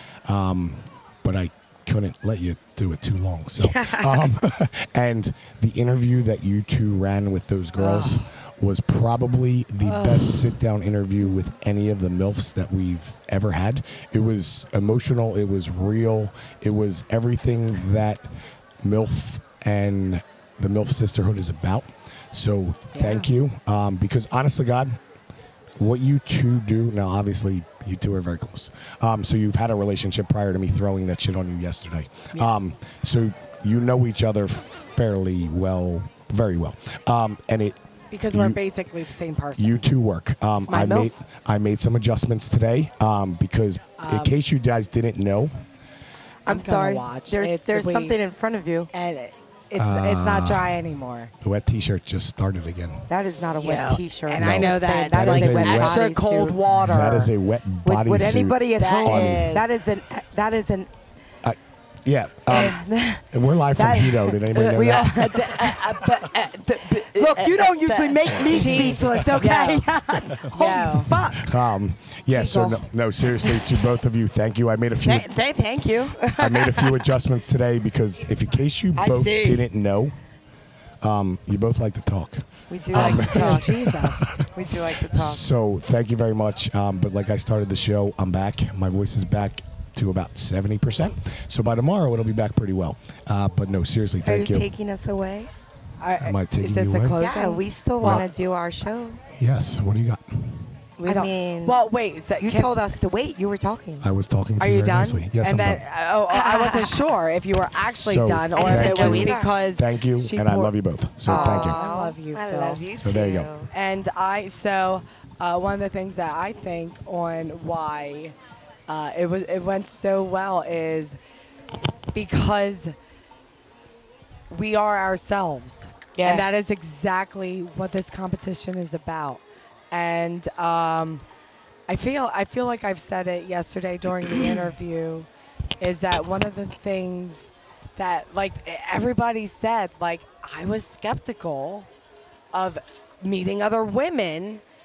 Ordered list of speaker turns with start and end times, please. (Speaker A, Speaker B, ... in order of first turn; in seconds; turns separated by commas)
Speaker A: 0.2-18.2, Speaker B: 3.6-4.3, Speaker C: 7.8-8.2, Speaker C: 9.8-10.5, Speaker A: 18.8-25.0, Speaker C: 22.9-23.3, Speaker A: 25.8-37.8, Speaker C: 32.3-32.6, Speaker C: 38.1-39.9, Speaker A: 38.3-38.6, Speaker A: 39.6-45.5, Speaker B: 40.7-41.1, Speaker C: 44.0-44.3, Speaker B: 46.5-48.9, Speaker C: 46.5-48.1, Speaker C: 48.9-51.3, Speaker A: 49.8-50.8, Speaker A: 51.4-53.1, Speaker B: 53.1-56.6, Speaker C: 53.6-57.3, Speaker A: 54.4-56.0, Speaker A: 56.7-59.5, Speaker B: 57.8-60.9, Speaker C: 58.8-59.6, Speaker A: 61.4-62.8, Speaker B: 62.5-71.5, Speaker A: 63.3-65.5, Speaker C: 64.8-71.1, Speaker A: 68.7-69.3, Speaker A: 71.1-75.3, Speaker C: 72.3-72.8, Speaker B: 75.0-77.1, Speaker A: 76.4-80.2, Speaker B: 79.0-79.6, Speaker A: 81.0-84.5, Speaker B: 82.7-84.0, Speaker C: 82.9-84.3, Speaker B: 84.5-85.4, Speaker A: 85.0-94.7, Speaker B: 94.2-95.5, Speaker C: 96.0-98.2, Speaker A: 96.2-97.2, Speaker B: 97.2-99.2, Speaker A: 98.0-98.2, Speaker A: 99.3-100.7, Speaker C: 101.0-102.7, Speaker B: 101.0-101.8, Speaker B: 102.4-104.1, Speaker A: 104.0-105.8, Speaker C: 104.6-110.7, Speaker B: 106.3-107.0, Speaker A: 108.0-111.8, Speaker B: 108.5-109.5, Speaker C: 111.2-112.8, Speaker B: 111.2-113.7, Speaker A: 113.0-113.5, Speaker C: 113.7-118.3, Speaker C: 118.9-121.2, Speaker C: 122.1-122.9, Speaker C: 124.5-131.2, Speaker B: 126.2-126.5, Speaker C: 131.9-135.3, Speaker C: 135.8-141.9, Speaker C: 142.5-144.6